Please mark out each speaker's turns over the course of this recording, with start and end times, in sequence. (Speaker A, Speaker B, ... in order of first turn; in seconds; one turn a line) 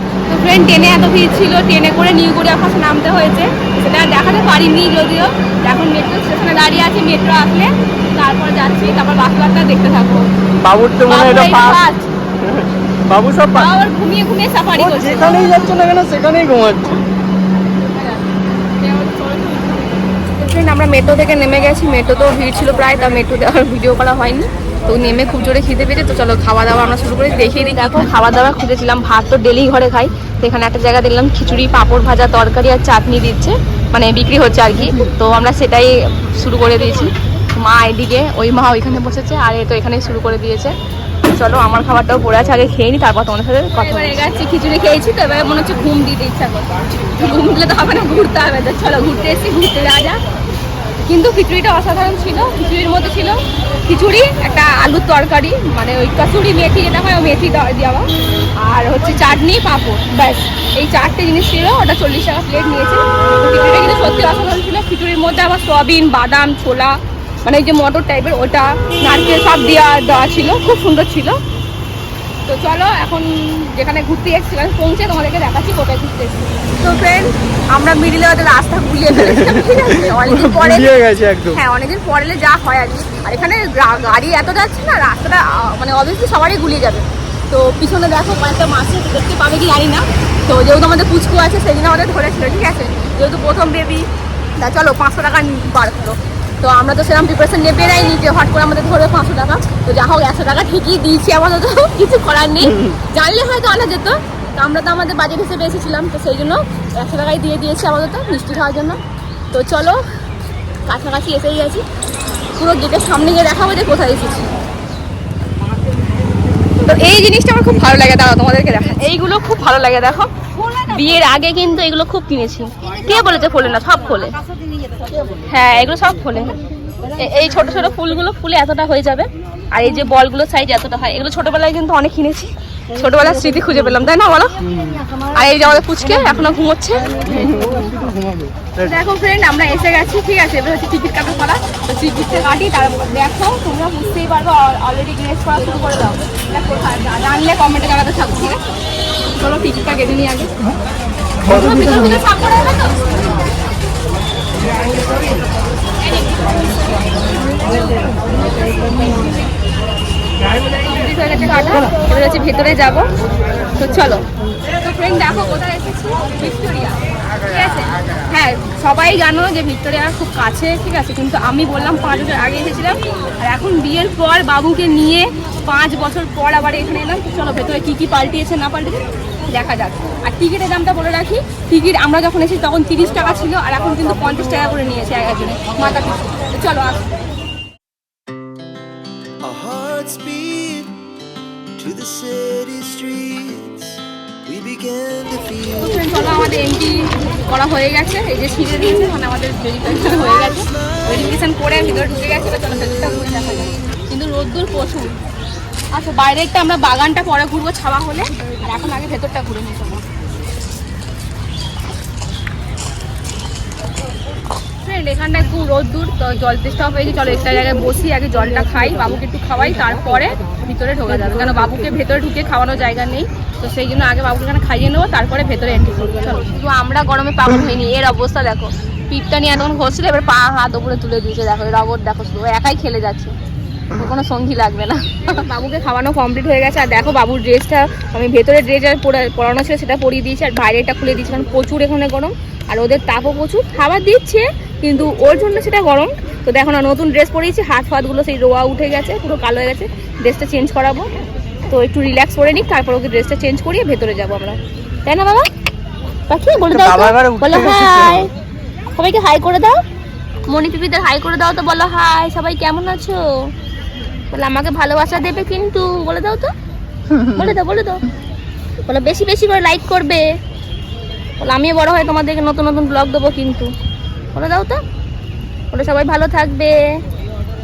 Speaker A: 0.3-10.3
Speaker B: 10.6-11.8
Speaker A: 11.1-12.1
Speaker B: 12.4-13.7
Speaker A: 13.5-15.5
Speaker B: 14.8-17.1
Speaker A: 17.8-50.2
Speaker A: 51.1-58.1
Speaker A: 58.6-71.4
Speaker A: 72.5-80.9
Speaker B: 79.1-81.6
Speaker A: 81.5-109.0
Speaker A: 109.5-110.0
Speaker A: 110.9-111.8
Speaker A: 112.5-114.5
Speaker A: 116.8-124.4
Speaker A: 125.4-126.6
Speaker A: 127.1-134.6
Speaker B: 134.6-135.1
Speaker A: 135.3-137.2
Speaker B: 137.3-138.9
Speaker A: 138.8-148.6
Speaker A: 149.3-150.5
Speaker B: 151.5-152.0
Speaker A: 151.5-153.1
Speaker A: 156.0-156.7
Speaker A: 160.8-163.1
Speaker A: 163.8-164.2
Speaker A: 164.8-187.1
Speaker C: 189.4-190.9
Speaker C: 191.8-195.7
Speaker A: 195.7-205.2
Speaker A: 205.9-210.1
Speaker A: 214.8-233.3
Speaker A: 233.9-251.1
Speaker A: 251.7-255.5
Speaker A: 256.3-258.3
Speaker B: 256.6-258.3
Speaker A: 258.9-259.8
Speaker A: 260.5-263.5
Speaker A: 264.3-266.5
Speaker A: 267.2-268.1
Speaker A: 268.8-270.4
Speaker A: 271.4-273.7
Speaker A: 274.3-274.8
Speaker A: 275.7-277.0